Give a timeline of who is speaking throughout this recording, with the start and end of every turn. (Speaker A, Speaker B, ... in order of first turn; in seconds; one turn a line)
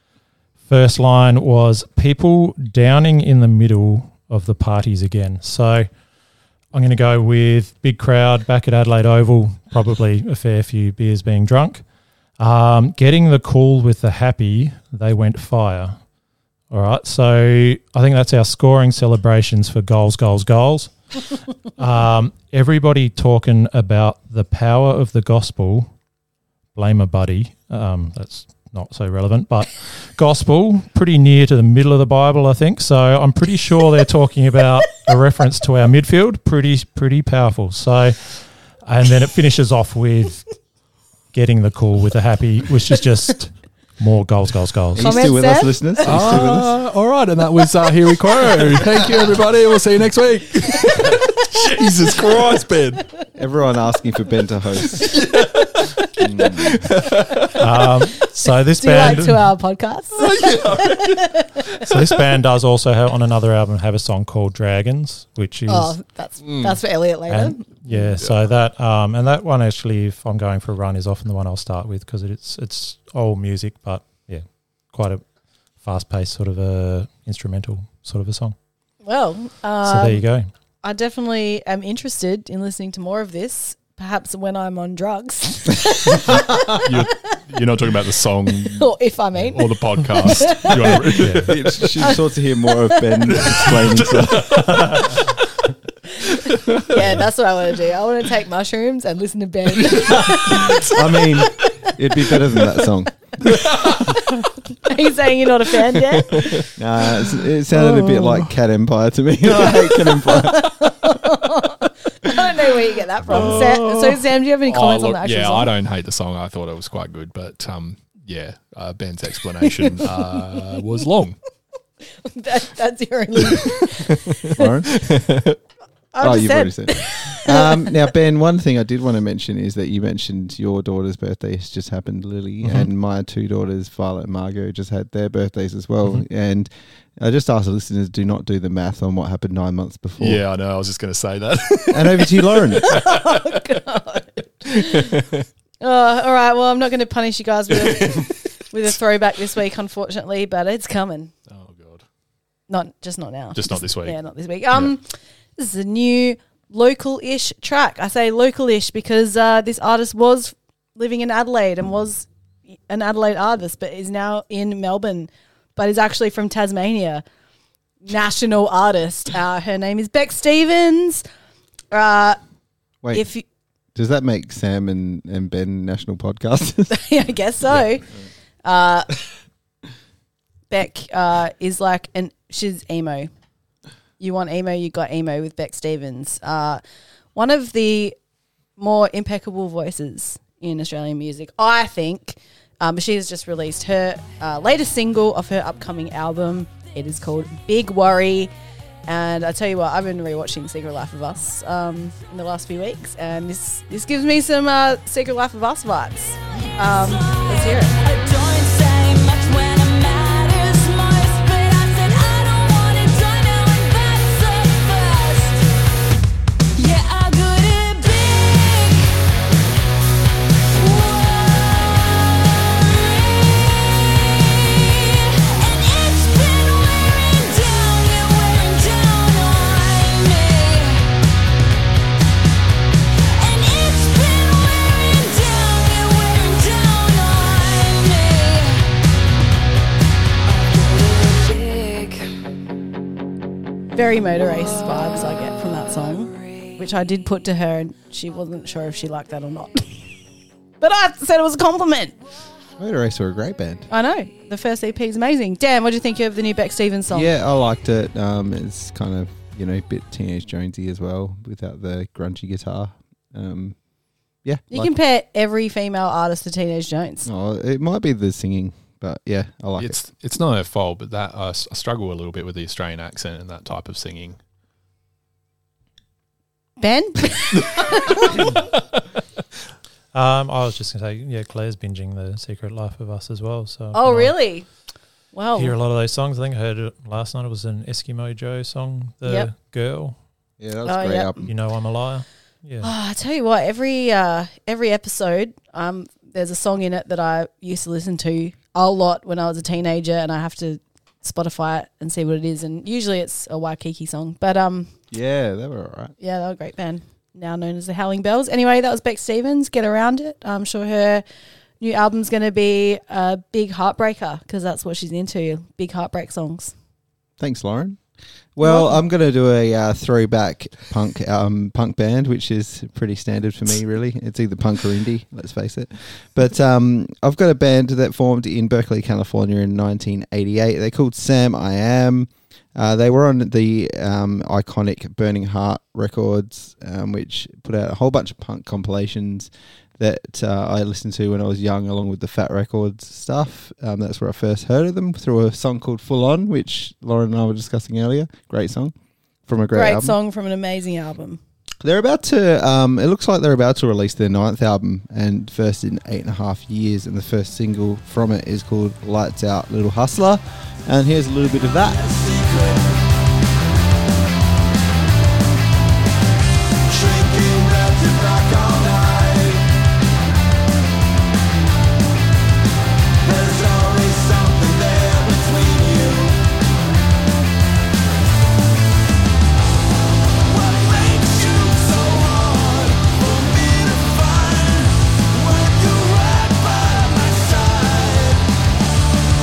Speaker A: 0.7-5.9
Speaker A: 6.7-11.8
Speaker A: 12.4-16.0
Speaker A: 16.7-21.2
Speaker A: 21.8-25.9
Speaker A: 26.8-40.5
Speaker A: 41.3-45.1
Speaker B: 45.0-46.8
Speaker C: 45.0-46.3
Speaker D: 46.0-53.1
Speaker B: 53.4-55.1
Speaker D: 54.9-57.8
Speaker B: 56.2-56.8
Speaker A: 57.6-59.5
Speaker C: 58.8-61.5
Speaker D: 60.2-62.2
Speaker A: 61.8-66.0
Speaker C: 65.7-68.1
Speaker D: 66.4-66.8
Speaker A: 67.3-75.2
Speaker A: 75.8-78.6
Speaker C: 79.0-80.2
Speaker A: 79.8-80.5
Speaker C: 80.8-86.8
Speaker D: 86.8-89.0
Speaker C: 88.7-91.0
Speaker D: 89.5-91.9
Speaker A: 91.2-91.5
Speaker B: 91.4-95.0
Speaker C: 92.0-93.3
Speaker D: 93.3-95.3
Speaker A: 94.7-95.0
Speaker D: 96.3-97.1
Speaker C: 96.5-101.9
Speaker D: 99.8-100.9
Speaker B: 100.4-103.1
Speaker C: 103.4-106.7
Speaker D: 103.5-104.3
Speaker D: 105.9-106.7
Speaker B: 106.8-111.1
Speaker C: 107.7-108.4
Speaker C: 109.6-115.7
Speaker D: 113.3-121.4
Speaker C: 122.2-124.7
Speaker B: 124.5-125.1
Speaker D: 124.9-125.6
Speaker C: 126.1-127.9
Speaker B: 126.2-140.4
Speaker D: 140.2-143.6
Speaker B: 141.9-142.9
Speaker C: 142.8-145.2
Speaker D: 144.7-145.4
Speaker C: 145.8-151.3
Speaker D: 147.8-148.3
Speaker D: 151.5-152.0
Speaker C: 152.7-162.3
Speaker D: 153.6-154.2
Speaker C: 162.9-167.2
Speaker C: 168.1-171.2
Speaker C: 171.9-172.4
Speaker C: 173.1-173.4
Speaker B: 173.9-177.0
Speaker C: 176.9-178.1
Speaker C: 178.6-179.1
Speaker C: 180.7-183.3
Speaker C: 184.2-186.8
Speaker C: 187.3-188.2
Speaker C: 188.8-198.5
Speaker C: 199.1-208.0
Speaker E: 207.2-215.6
Speaker E: 216.8-219.2
Speaker E: 220.8-231.2
Speaker E: 233.3-239.0
Speaker E: 240.5-242.2
Speaker C: 243.9-249.9
Speaker C: 250.8-252.2
Speaker B: 252.8-253.9
Speaker C: 253.9-257.3
Speaker B: 257.1-263.8
Speaker B: 264.4-264.9
Speaker C: 264.7-267.3
Speaker B: 267.3-270.0
Speaker D: 269.8-274.4
Speaker C: 276.8-278.4
Speaker A: 280.1-284.3
Speaker C: 283.9-284.7
Speaker C: 285.3-285.8
Speaker A: 285.6-290.2
Speaker C: 289.2-289.5
Speaker B: 290.6-291.5
Speaker C: 290.9-291.4
Speaker A: 291.4-292.9
Speaker C: 292.8-304.9
Speaker B: 305.1-306.1
Speaker C: 306.2-311.2
Speaker C: 311.8-316.7
Speaker B: 317.4-318.0
Speaker B: 318.6-348.9
Speaker C: 318.6-319.0
Speaker B: 349.5-350.2
Speaker C: 349.7-351.4
Speaker B: 351.8-362.4
Speaker E: 367.2-367.6
Speaker E: 368.6-369.4
Speaker E: 373.4-376.3
Speaker E: 380.7-384.9
Speaker E: 385.5-388.4